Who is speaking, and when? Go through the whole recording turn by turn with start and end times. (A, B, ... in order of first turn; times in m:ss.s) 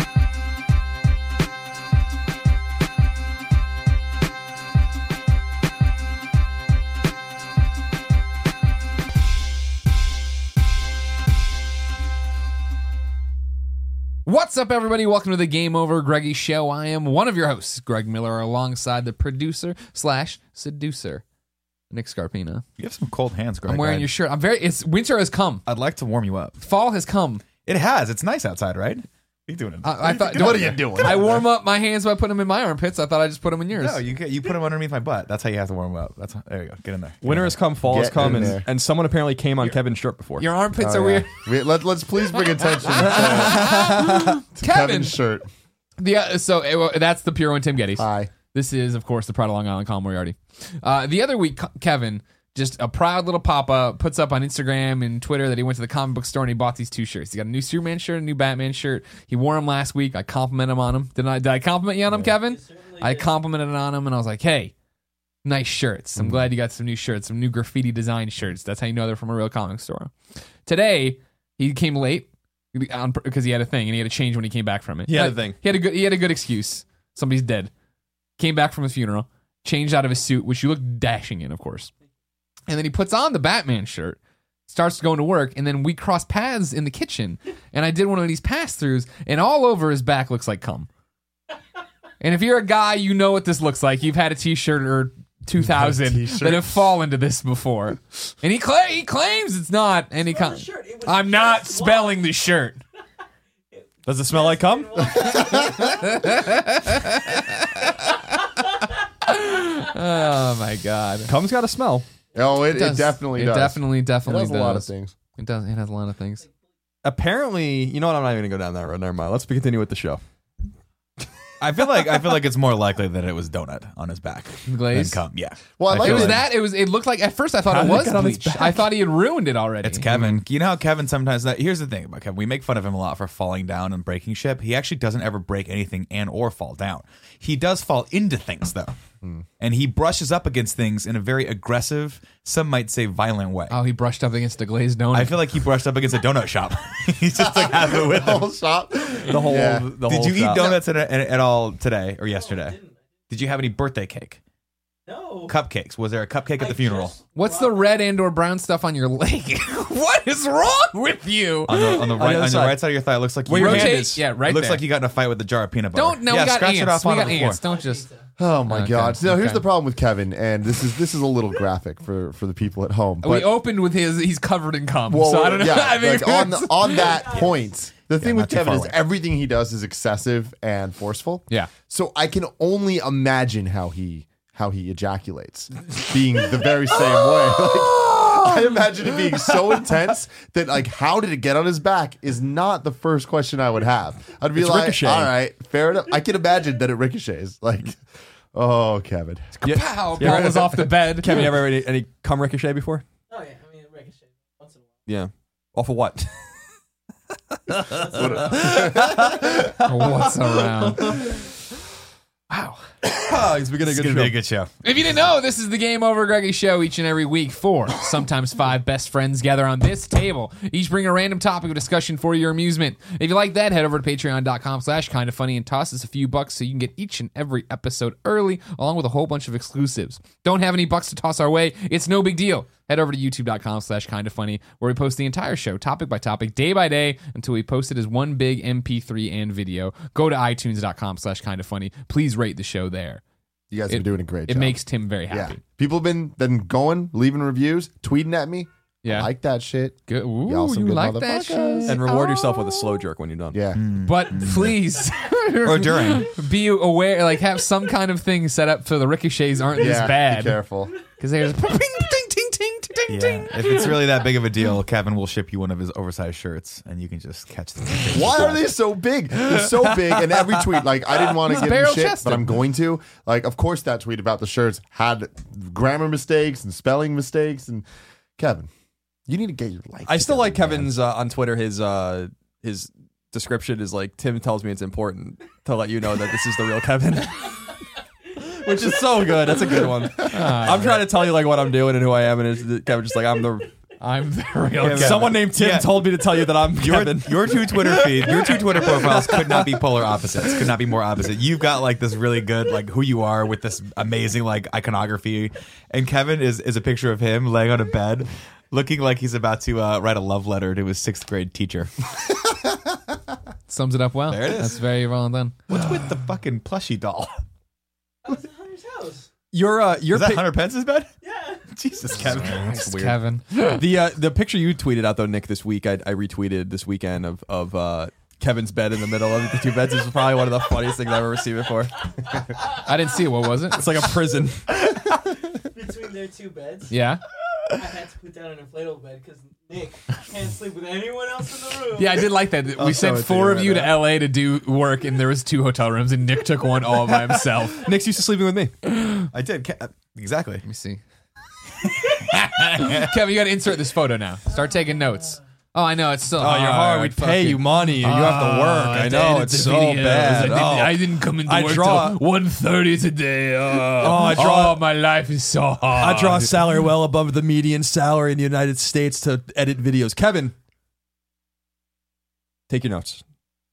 0:14.2-0:21.2 A
0:21.9-0:22.6 A
0:22.8-0:24.1 B
0:23.7-0:25.6 A
0:25.6-0:26.6 B
0:26.6-0:27.4 A
0:27.6-0:31.2 B
0:29.8-0:34.0 A
0:30.3-0:31.4 C
0:33.8-0:37.6 B
0:37.2-0:40.4 D
0:37.8-0:38.6 C
0:38.2-0:38.5 B
0:40.4-0:41.4 A
0:40.8-0:45.4 C
0:42.8-0:45.2 A
0:43.1-0:44.2 D
0:46.0-1:04.7 A
0:48.0-0:48.3 C
1:02.4-1:03.3 E
1:05.4-1:10.1 A
1:10.6-1:17.7 A
1:15.1-1:15.6 D
1:18.4-1:21.9 A
1:22.7-1:30.9 A
1:32.2-1:42.8 A
1:35.6-1:36.8 C
1:40.2-1:42.3 E
1:43.7-1:46.5 E
1:44.0-1:45.1 D
1:45.1-1:48.5 A
1:45.2-1:45.9 C
1:49.2-1:51.3 A
1:51.3-1:52.0 D
1:52.3-1:55.1 C
1:52.7-1:56.4 A
1:57.0-2:00.2 D
2:01.6-2:06.4 B
2:04.6-2:05.2 A
2:05.8-2:06.4 C
2:05.9-2:10.1 A
2:07.7-2:08.9 D
2:09.8-2:18.9 B
2:10.1-2:10.4 D
2:19.6-2:23.8 B
2:23.7-2:25.4 A
2:25.1-2:28.5 B
2:27.4-2:29.9 C
2:29.2-2:30.8 D
2:30.0-2:32.8 B
2:32.2-2:33.0 E
2:33.3-2:34.4 B
2:35.1-2:35.6 E
2:35.5-2:37.2 B
2:36.6-2:37.9 E
2:37.3-2:42.2 A
2:41.7-2:47.6 B
2:41.7-2:42.8 D
2:43.4-2:44.2 D
2:43.5-2:44.8 A
2:45.9-2:48.0 A
2:47.2-2:48.3 E
2:48.4-2:53.5 C
2:48.6-2:49.6 A
2:53.2-2:57.2 A
2:55.1-3:18.0 C
2:56.9-2:57.6 E
2:58.2-2:59.0 B
3:14.6-3:15.3 D
3:18.5-3:19.6 C
3:19.6-3:21.6 A
3:19.6-3:23.0 D
3:23.3-3:24.9 E
3:25.1-3:26.3 D
3:27.8-3:28.8 E
3:28.1-3:29.7 C
3:28.7-3:29.0 D
3:29.6-3:31.2 A
3:30.7-3:31.3 E
3:32.5-3:32.8 B
3:33.0-3:34.3 D
3:33.8-3:34.7 B
3:34.8-4:03.2 A
4:03.7-4:04.8 C
4:03.9-4:05.6 A
4:05.3-4:12.1 C
4:09.0-4:09.3 A
4:10.1-4:12.2 A
4:11.8-4:13.6 D
4:13.5-4:13.8 C
4:13.7-4:14.8 B
4:14.0-4:20.6 A
4:15.6-4:16.3 B
4:19.7-4:20.9 C
4:21.2-4:24.1 A
4:23.1-4:28.6 B
4:28.1-4:37.8 C
4:31.4-4:32.5 A
4:38.4-4:38.7 C
4:39.3-4:41.0 C
4:40.1-4:47.6 D
4:48.5-4:53.7 D
4:50.2-4:51.0 A
4:54.0-4:55.3 A
4:54.8-4:56.2 B
4:54.8-5:00.5 D
4:56.7-5:11.9 B
5:13.7-5:15.6 A
5:14.3-5:14.8 B
5:15.7-5:17.3 B
5:18.2-5:19.3 E
5:19.5-5:20.6 D
5:20.1-5:21.1 B
5:21.2-5:22.2 E
5:21.7-5:23.1 B
5:22.2-5:23.1 D
5:22.3-5:23.8 A
5:23.7-5:32.0 D
5:32.2-5:32.7 E
5:32.8-5:33.8 A
5:33.7-5:34.7 D
5:34.8-5:36.9 E
5:36.9-5:37.2 A
5:37.7-5:42.3 E
5:41.9-5:47.8 A
5:42.8-5:43.9 D
5:47.1-5:48.7 D
5:49.0-5:49.2 A
5:49.3-5:50.6 B
5:50.6-5:51.0 A
5:52.0-6:06.6 A
5:52.3-5:53.2 B
5:56.4-6:02.2 D
6:03.9-6:04.8 D
6:06.0-6:10.5 D
6:12.7-6:13.2 D